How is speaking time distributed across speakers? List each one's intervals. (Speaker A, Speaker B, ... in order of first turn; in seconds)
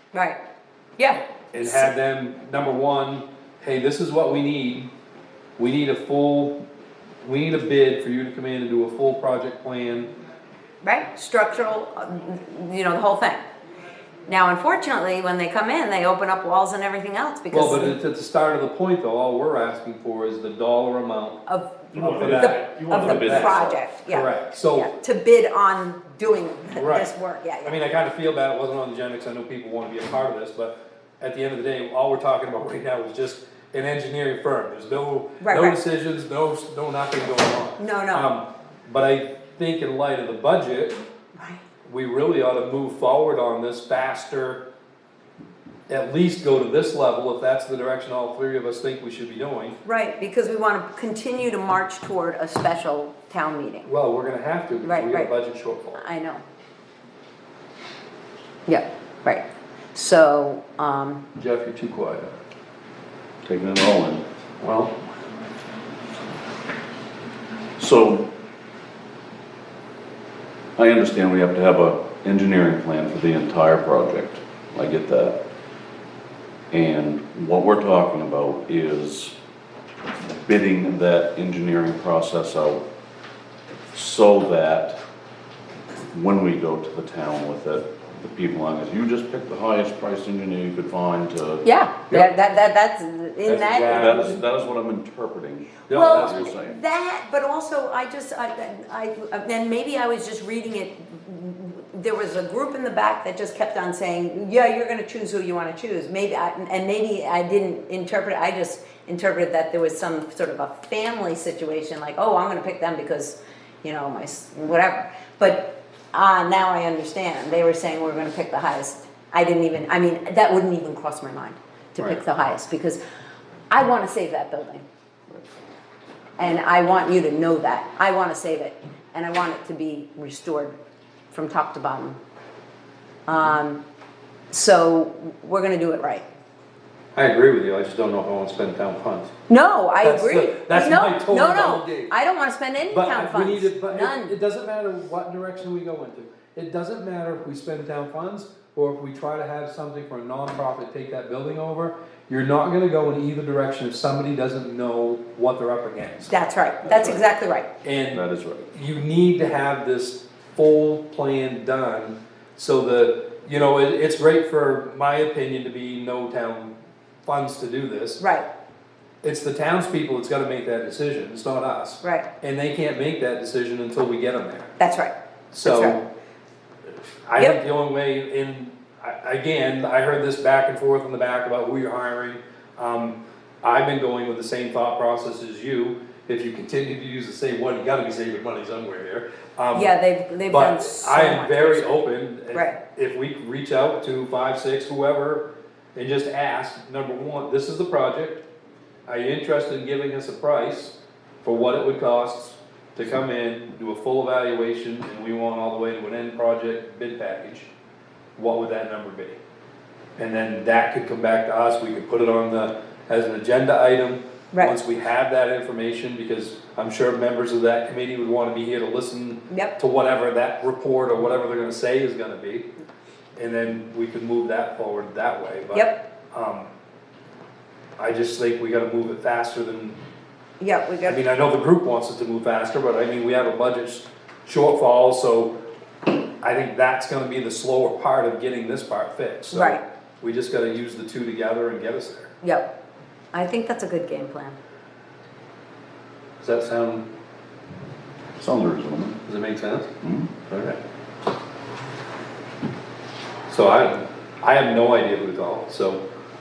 Speaker A: 0.1-0.4, 1.0-1.9, 10.8-13.4, 14.3-17.9, 21.5-27.8, 35.4-35.8, 37.8-38.3, 41.4-41.6, 49.8-53.9, 54.8-55.3, 55.9-56.4, 58.7-61.2, 91.6-94.4, 95.9-123.0, 123.7-124.8, 126.4-130.8, 131.3-132.2, 133.2-133.8, 134.5-136.3, 139.5-144.3, 156.3-157.7, 168.2-168.5, 172.0-172.3, 174.8-176.0, 189.7-192.8, 219.5-219.7, 225.7-226.0, 230.6-231.2, 239.5-239.8, 242.4-242.7, 243.3-244.6
Speaker B: 1.5-4.9, 5.6-6.6, 7.2-10.1, 17.5-21.4, 21.9-24.9, 26.7-27.1, 27.6-41.0, 41.8-44.6, 45.9-49.8, 53.9-56.0, 61.4-62.3, 64.6-65.0, 93.4-94.4, 95.9-96.5, 137.1-139.3, 140.0-142.1, 142.9-156.3, 157.8-168.2, 169.2-174.7, 175.5-176.0, 177.2-189.9, 190.5-198.4, 199.1-207.7, 208.4-209.4, 210.2-222.7, 223.3-226.7, 228.0-230.0, 231.0-235.5, 236.4-242.3, 246.4-247.0, 249.2-249.9, 250.5-250.8, 253.5-256.0
Speaker C: 21.9-23.8, 63.4-64.2, 67.8-68.3, 70.8-75.4, 76.7-79.3, 80.2-82.8, 83.9-85.0, 86.1-91.6, 93.9-96.8, 156.8-157.3, 158.1-158.7, 248.4-249.2, 250.0-250.3